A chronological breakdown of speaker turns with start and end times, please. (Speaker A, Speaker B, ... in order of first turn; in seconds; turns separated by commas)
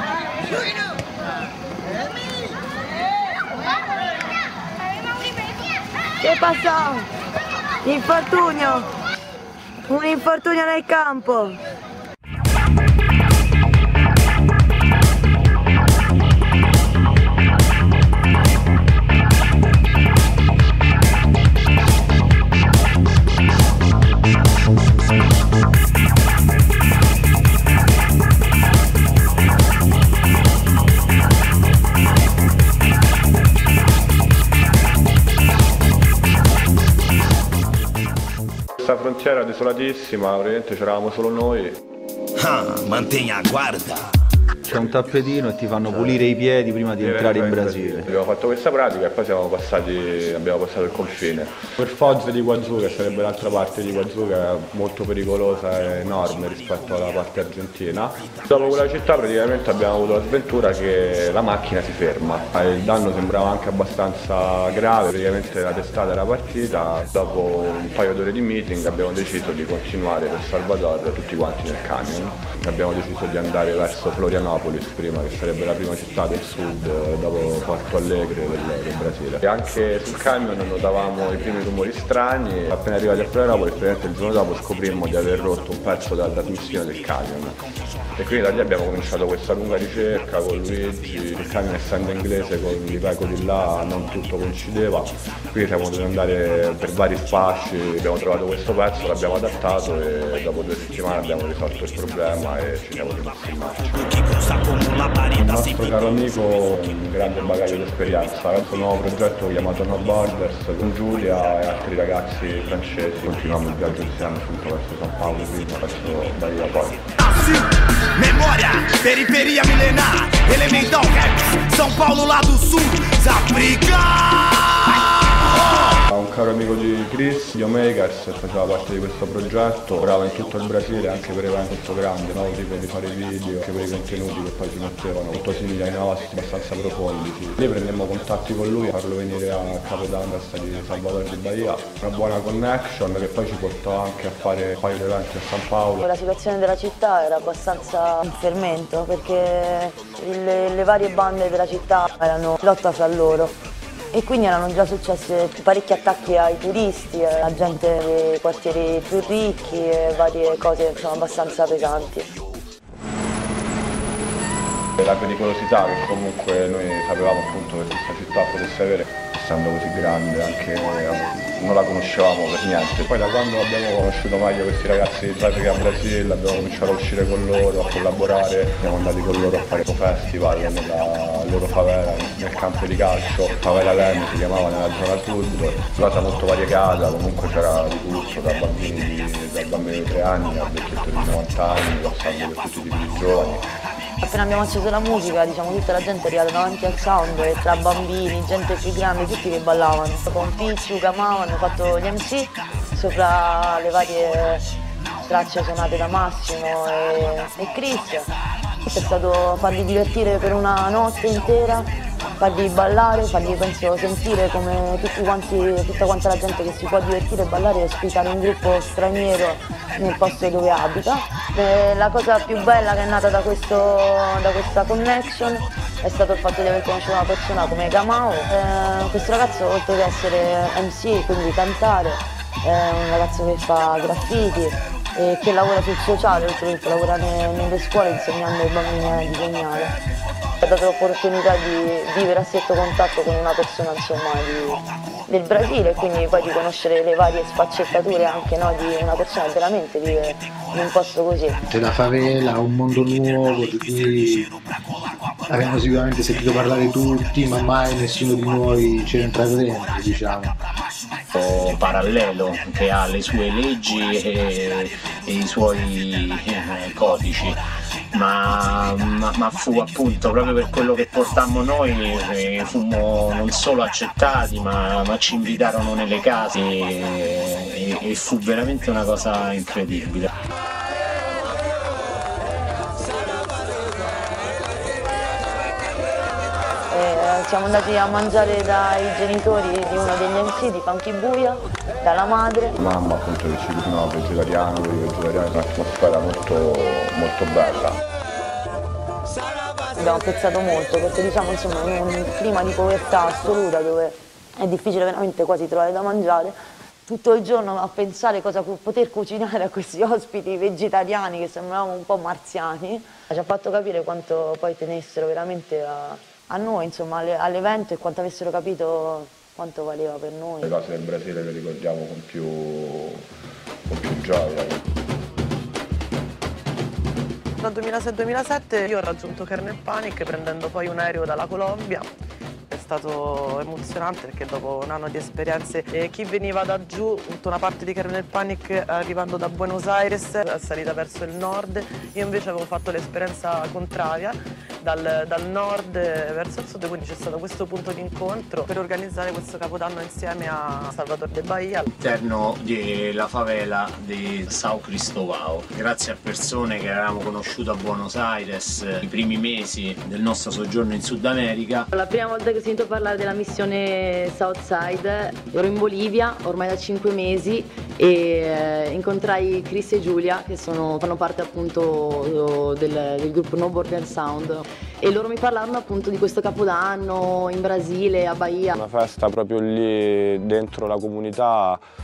Speaker A: 6.2-7.1, Speaker A: 7.8-8.9, Speaker A: 9.9-11.6, Speaker B: 38.8-41.8, Speaker C: 42.4-44.0, Speaker D: 44.6-48.1, Speaker B: 45.9-46.2, Speaker B: 47.0-87.6, Speaker B: 88.2-104.5, Speaker B: 105.3-117.1, Speaker C: 117.2-124.5, Speaker B: 125.9-146.0, Speaker A: 146.0-153.5, Speaker A: 154.1-162.4, Speaker B: 165.0-193.7, Speaker A: 194.2-204.6, Speaker A: 205.2-208.3, Speaker A: 208.8-239.9, Speaker A: 240.6-251.6, Speaker E: 251.6-254.5, Speaker E: 255.5-260.6, Speaker F: 261.3-267.6, Speaker F: 268.1-280.3, Speaker A: 286.9-292.8, Speaker B: 292.8-298.0, Speaker A: 299.9-320.7, Speaker B: 320.6-323.2, Speaker B: 323.9-324.8, Speaker G: 327.6-332.1, Speaker G: 332.7-351.9, Speaker F: 352.0-361.9, Speaker H: 361.9-378.7, Speaker B: 378.7-381.8